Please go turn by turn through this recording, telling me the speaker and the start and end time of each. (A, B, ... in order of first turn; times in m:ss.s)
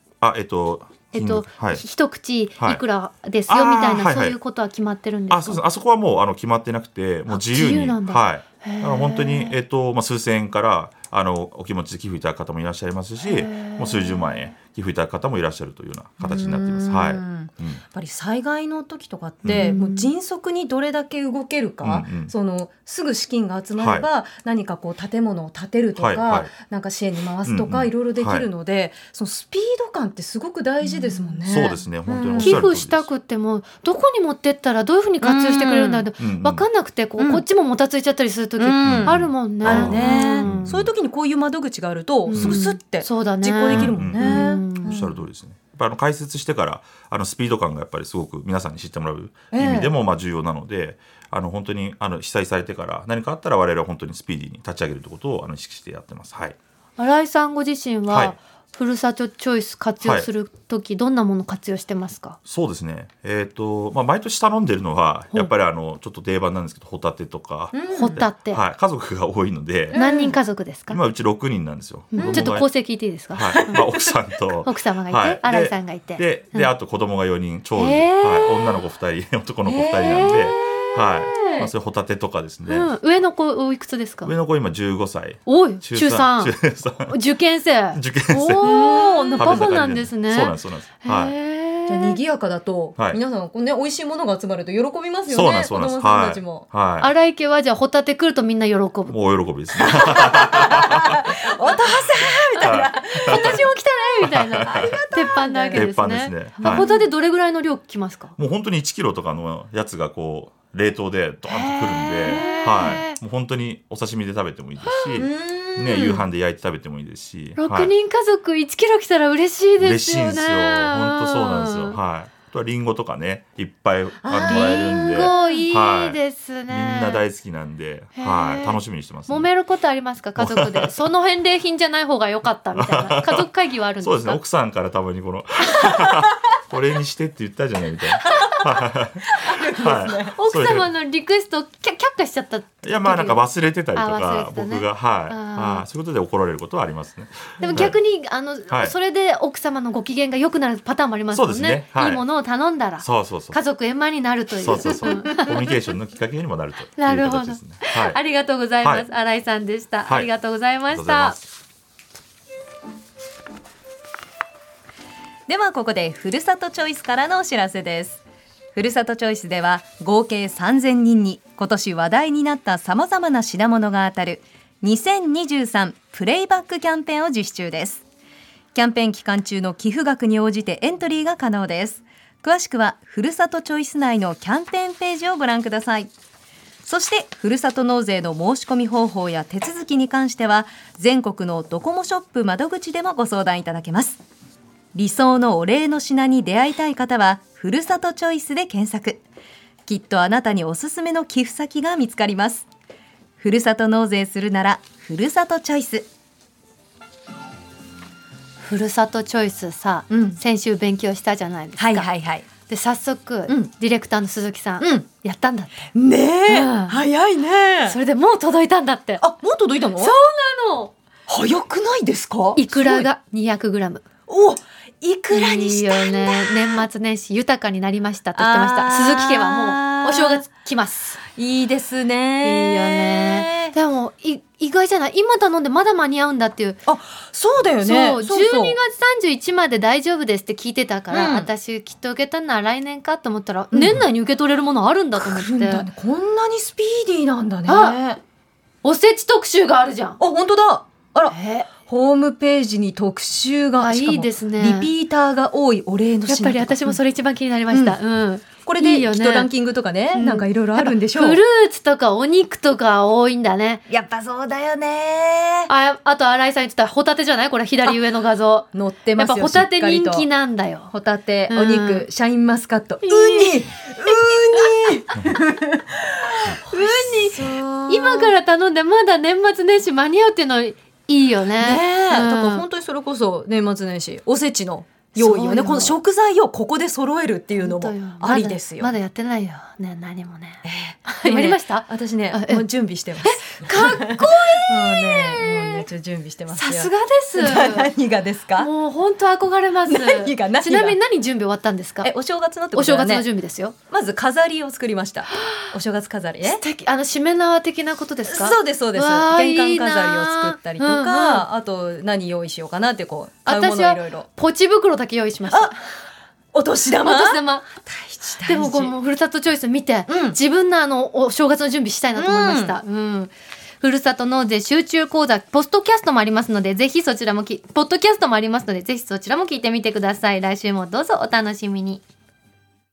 0:00.2-0:01.8 A
0:01.1-0:05.6 B
0:03.5-0:04.4 A
0:05.3-0:17.8 A
0:07.3-0:09.6 B
0:13.3-0:14.4 B
0:16.2-0:32.6 C
0:19.4-0:19.7 A
0:19.5-0:20.1 B
0:21.8-0:22.3 A
0:23.8-0:24.1 A
0:26.0-0:26.5 A
0:27.4-0:28.5 A
0:30.9-0:31.4 B
0:31.5-0:33.1 A
0:32.1-0:40.7 B
0:35.2-0:36.1 C
0:36.2-0:36.7 A
0:37.2-0:37.4 C
0:38.6-0:45.2 C
0:38.8-0:40.9 A
0:42.3-0:45.0 B
0:42.3-0:42.6 A
0:43.7-0:56.6 A
0:49.5-0:49.9 C
0:57.0-1:02.4 B
0:58.1-0:58.4 A
1:00.0-1:00.3 A
1:02.5-1:10.0 A
1:07.7-1:08.3 C
1:07.9-1:08.6 B
1:09.9-1:10.4 C
1:09.9-1:11.0 B
1:10.9-1:22.9 A
1:12.1-1:13.9 B
1:12.2-1:12.5 C
1:13.4-1:13.8 C
1:14.5-1:16.7 B
1:17.8-1:18.8 B
1:19.7-1:19.9 C
1:20.0-1:21.7 B
1:22.7-1:24.3 B
1:24.2-1:27.2 A
1:25.5-1:32.2 B
1:27.9-1:31.4 A
1:28.6-1:29.7 C
1:31.9-1:36.7 C
1:35.3-1:37.1 A
1:37.0-1:39.2 B
1:39.1-1:41.2 A
1:39.8-1:43.7 C
1:42.6-1:43.7 A
1:42.6-1:48.4 B
1:44.2-1:45.0 A
1:44.6-1:45.9 C
1:45.7-1:46.9 A
1:46.6-1:47.1 C
1:48.4-1:57.9 A
1:51.5-1:53.2 B
1:52.3-1:52.6 C
1:54.8-1:55.3 B
1:55.2-1:56.3 C
1:57.6-2:02.0 B
1:59.8-2:09.5 A
2:04.2-2:05.6 C
2:04.4-2:07.2 B
2:08.2-2:14.4 B
2:10.4-2:10.9 A
2:12.8-2:13.5 A
2:14.0-2:20.9 A
2:19.3-2:20.4 C
2:20.4-2:25.9 B
2:22.8-2:28.0 A
2:27.6-2:27.9 C
2:27.6-2:35.7 B
2:28.7-2:29.0 A
2:31.3-2:32.2 A
2:33.0-2:33.6 A
2:34.6-2:38.2 A
2:34.8-2:35.6 C
2:37.0-2:41.4 B
2:38.8-2:39.1 A
2:40.1-2:40.3 A
2:40.9-2:41.5 A
2:45.5-2:48.2 C
2:48.7-2:58.0 C
2:58.7-3:06.1 C
3:06.8-3:14.2 C
3:15.0-3:19.2 C
3:19.9-3:22.7 C
3:23.4-3:26.1 C
3:28.6-3:32.1 B
3:30.1-3:30.4 C
3:31.8-3:32.5 C
3:32.7-3:35.8 B
3:34.8-3:35.1 C
3:35.9-3:38.0 C
3:36.5-3:37.0 B
3:37.8-3:39.2 B
3:39.2-3:40.2 C
3:40.0-3:40.9 B
3:41.3-3:43.1 C
3:42.6-3:44.0 B
3:44.3-3:46.9 C
3:45.3-3:51.2 B
3:48.4-3:50.4 C
3:51.4-3:53.7 C
3:52.4-3:56.8 B
3:56.9-3:58.8 C
3:57.8-4:05.9 B
4:01.1-4:01.5 C
4:03.7-4:04.1 C
4:05.2-4:08.2 C
4:07.7-4:08.0 B
4:08.8-4:10.2 B
4:10.2-4:17.0 C
4:11.3-4:11.7 B
4:13.8-4:14.9 B
4:16.3-4:19.5 B
4:17.7-4:18.0 C
4:18.6-4:21.4 C
4:20.1-4:23.8 B
4:23.9-4:25.7 C
4:25.7-4:30.9 B
4:28.7-4:30.3 C
4:30.9-4:38.4 C
4:31.5-4:32.1 B
4:33.0-4:33.6 B
4:36.7-4:42.7 B
4:41.6-4:48.9 C
4:45.2-4:46.0 B
4:47.6-4:52.6 B
4:50.6-4:58.7 C
4:53.2-4:55.9 B
4:56.5-4:57.9 B
4:58.6-5:02.1 B
4:59.9-5:01.0 C
5:02.0-5:03.3 C
5:02.7-5:03.8 B
5:03.9-5:06.6 C
5:05.4-5:05.7 B
5:06.4-5:11.4 B
5:08.3-5:14.3 C
5:13.5-5:15.8 B
5:15.5-5:15.8 C
5:16.5-5:18.9 C
5:17.0-5:17.7 B
5:18.4-5:32.0 B
5:20.1-5:20.4 C
5:22.2-5:22.8 C